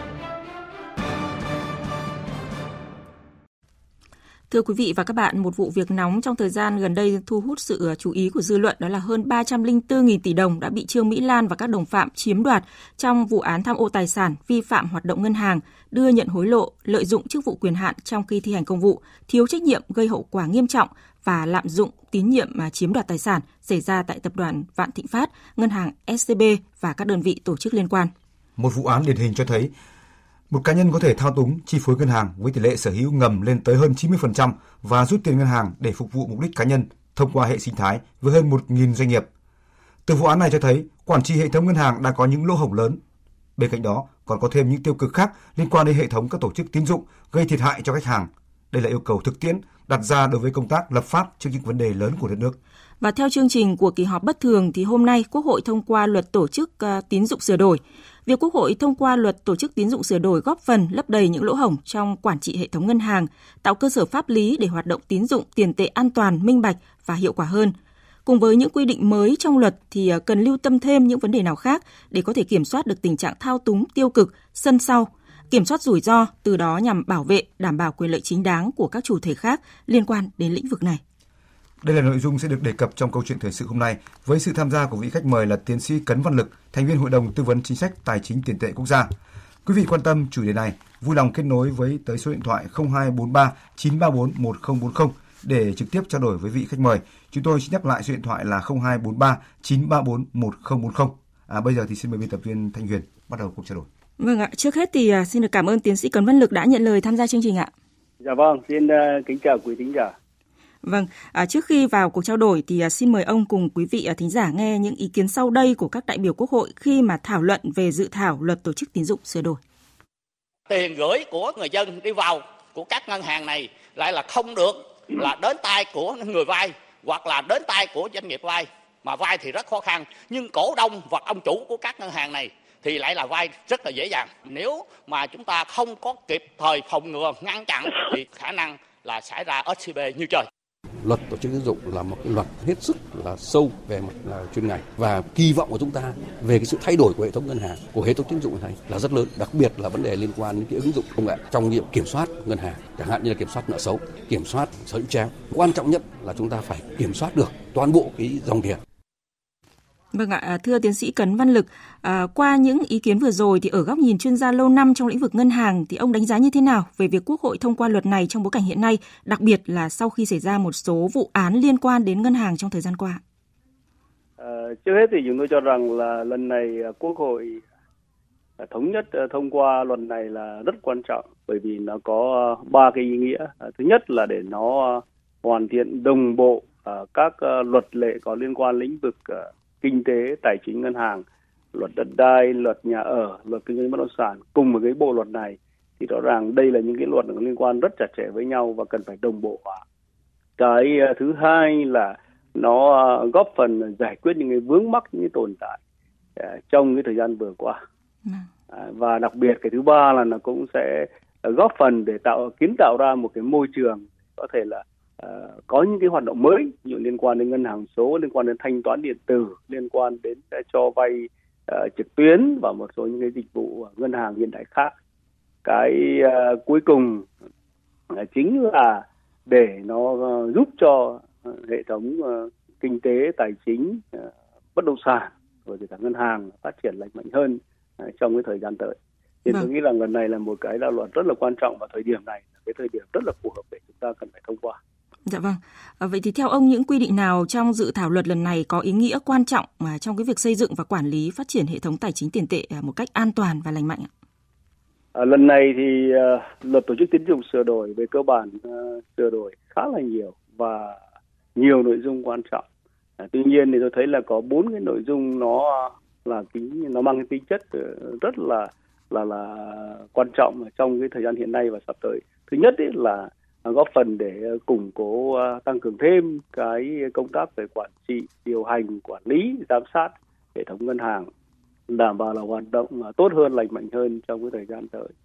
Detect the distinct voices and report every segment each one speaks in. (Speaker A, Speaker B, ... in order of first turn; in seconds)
Speaker A: 4.5-28.1, 53.0-67.7, 68.3-81.0, 104.2-107.7, 110.8-119.6, 160.1-173.2, 245.3-254.1
Speaker B: 28.6-29.7, 30.5-39.3, 40.1-43.0, 43.6-52.6, 81.8-89.1, 89.7-103.9
Speaker C: 108.2-110.1, 174.4-177.6, 178.6-191.2, 191.7-199.8, 200.6-205.8, 206.4-207.8, 208.7-224.9, 225.7-227.3, 228.1-244.8, 255.1-261.0, 261.6-262.6, 263.2-281.3, 281.9-285.1
Speaker D: 120.7-140.5
Speaker E: 141.0-158.8